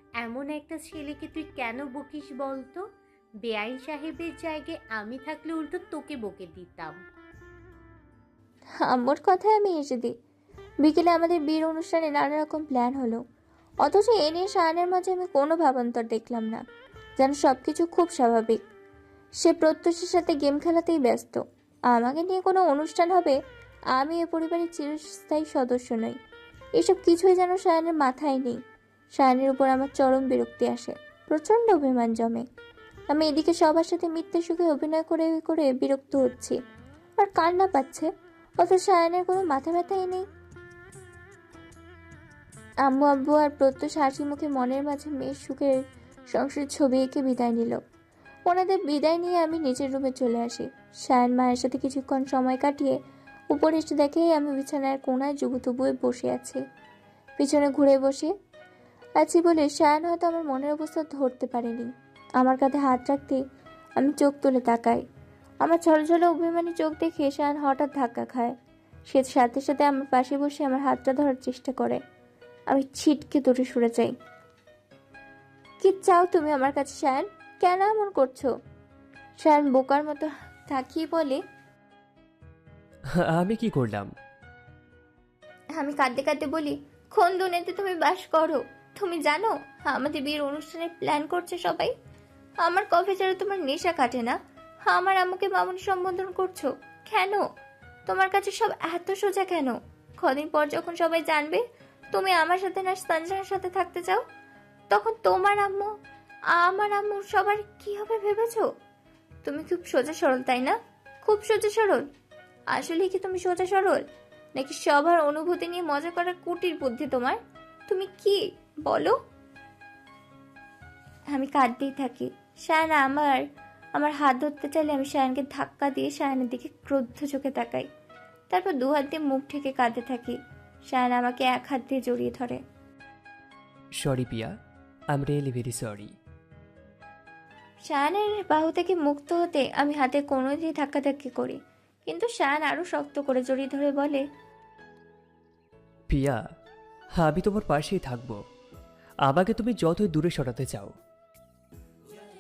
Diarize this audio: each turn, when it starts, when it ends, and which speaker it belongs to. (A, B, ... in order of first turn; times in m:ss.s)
0:00.2-0:02.8 A
0:03.4-0:07.0 A
0:08.8-0:10.1 B
0:10.8-0:13.2 B
0:13.8-0:16.6 B
0:17.2-0:18.6 B
0:19.4-0:21.4 B
0:21.9-0:23.4 B
0:24.0-0:26.2 B
0:26.8-0:28.6 B
0:29.2-0:32.4 B
0:33.1-0:36.6 B
0:37.2-0:38.1 B
0:38.6-0:40.2 B
0:42.8-0:45.8 B
0:46.3-0:47.8 B
0:48.5-0:53.0 B
0:53.5-0:56.6 B
0:57.4-0:58.3 B
0:59.2-1:03.4 B
1:04.0-1:05.0 B
1:05.6-1:08.6 B
1:09.1-1:12.0 B
1:12.7-1:14.1 B
1:15.8-1:18.5 B
1:19.4-1:21.4 B
1:23.1-1:24.1 C
1:25.8-1:31.9 B
1:32.6-1:37.4 B
1:38.1-1:44.2 B
1:44.9-1:45.9 B
1:46.5-1:48.7 B
1:49.4-1:52.1 B
1:52.7-1:54.0 B
1:54.6-1:59.2 B
2:01.3-2:03.4 B
2:04.0-2:07.9 B
2:08.5-2:10.4 B
2:10.9-2:12.6 B
2:14.0-2:14.5 C
2:15.1-2:16.1 C
2:17.9-2:24.2 B
2:26.1-2:26.4 C
2:27.2-2:28.4 C
2:29.3-2:30.9 C